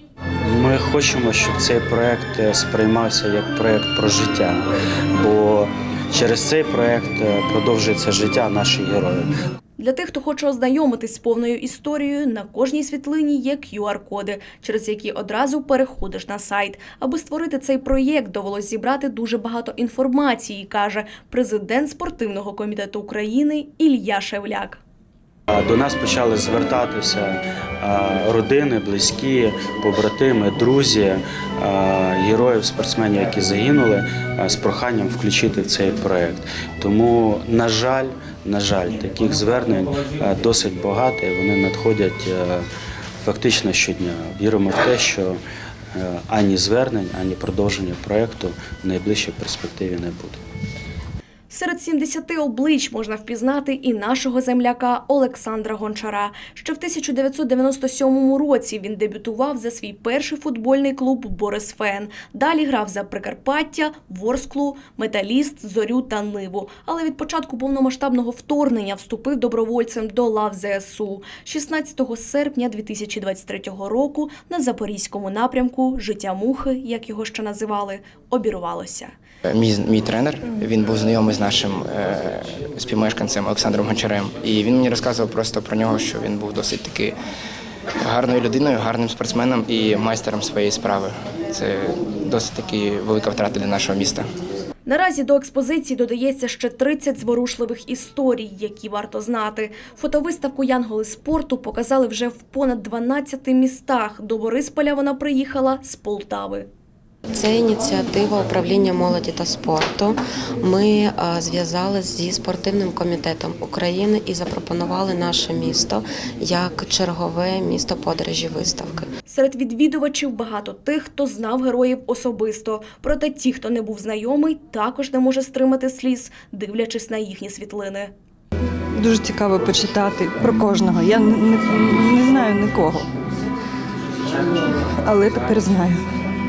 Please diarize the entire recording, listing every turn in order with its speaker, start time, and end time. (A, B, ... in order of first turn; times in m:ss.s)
0:00.4-0:04.7 A
0:05.2-0:09.3 A
0:09.8-0:24.8 B
0:25.5-0:42.6 A
0:43.2-0:45.4 A
0:45.9-0:50.4 A
0:51.5-1:19.1 B
1:19.5-1:27.2 C
1:28.0-1:34.3 C
1:34.9-1:46.7 B
1:47.3-1:59.1 D
1:59.3-2:08.1 B
2:09.0-2:13.1 E
2:15.0-2:16.0 E